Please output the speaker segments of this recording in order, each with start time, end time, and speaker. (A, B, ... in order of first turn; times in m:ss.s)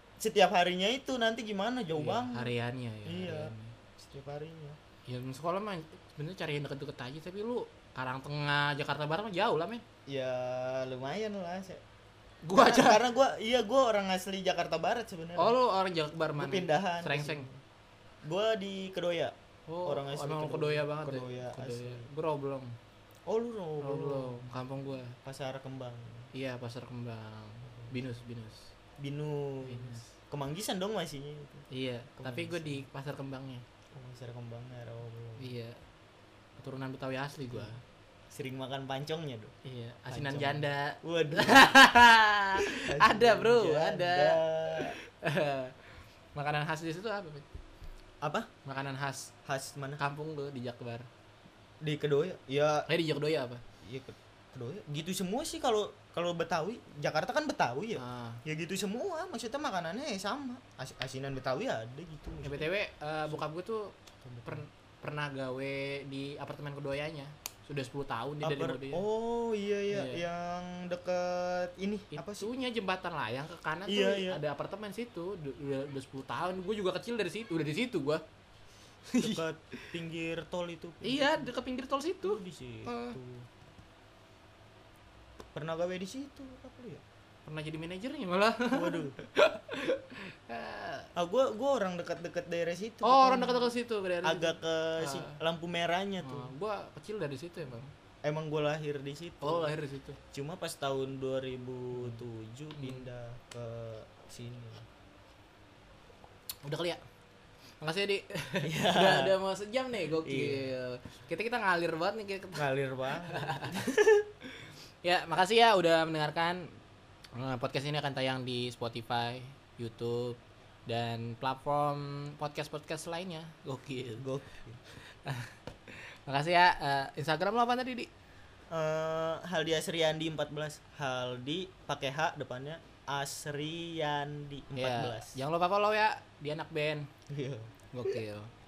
0:00.2-0:02.5 A
0:02.0-0:03.8 B
0:03.1-0:04.8 A
0:05.1-0:09.8 B
0:10.1-0:11.8 A
0:12.4-0:13.0 B
0:12.5-0:15.5 A
0:15.4-0:17.5 B
0:16.4-0:17.6 A
0:18.2-0:22.1 A
0:19.7-0:22.7 B
0:23.3-0:24.5 A
0:23.8-0:25.2 B
0:25.2-0:26.3 A
0:26.3-0:28.7 B
0:29.0-0:31.7 A
0:29.6-0:30.1 B
0:31.7-0:33.6 B
0:32.2-0:32.8 A
0:33.9-0:35.5 A
0:35.4-0:35.8 B
0:36.6-0:37.8 B
0:37.5-0:37.8 A
0:38.3-0:39.5 A
0:39.6-0:45.8 B
0:40.1-0:41.8 A
0:42.6-0:45.0 A
0:46.3-0:47.4 B
0:48.2-0:48.5 A
0:48.6-0:49.3 B
0:49.4-0:50.0 A
0:50.0-0:51.1 B
0:51.8-0:52.9 A
0:52.9-0:53.6 B
0:53.8-1:02.7 A
0:58.0-0:58.4 B
1:02.4-1:09.0 B
1:04.2-1:04.6 A
1:08.4-1:12.5 A
1:09.9-1:10.2 B
1:12.1-1:18.2 B
1:13.9-1:14.4 A
1:19.1-1:19.9 B
1:19.2-1:21.5 A
1:21.0-1:23.2 B
1:22.2-1:23.5 A
1:25.5-1:27.0 A
1:27.4-1:31.1 B
1:28.7-1:29.2 A
1:31.1-1:36.5 A
1:33.0-1:35.4 B
1:36.2-1:37.9 B
1:38.2-1:39.8 A
1:39.4-1:40.2 B
1:40.3-1:44.8 A
1:41.9-1:42.2 B
1:42.8-1:43.0 B
1:46.6-1:47.0 B
1:47.8-1:53.8 B
1:48.6-1:49.3 A
1:50.2-1:50.7 A
1:52.6-1:54.3 A
1:55.0-1:56.8 B
1:57.3-2:04.2 B
2:04.2-2:04.8 A
2:04.9-2:08.1 B
2:08.7-2:15.4 A
2:14.8-2:17.1 B
2:17.3-2:17.7 A
2:17.9-2:18.5 B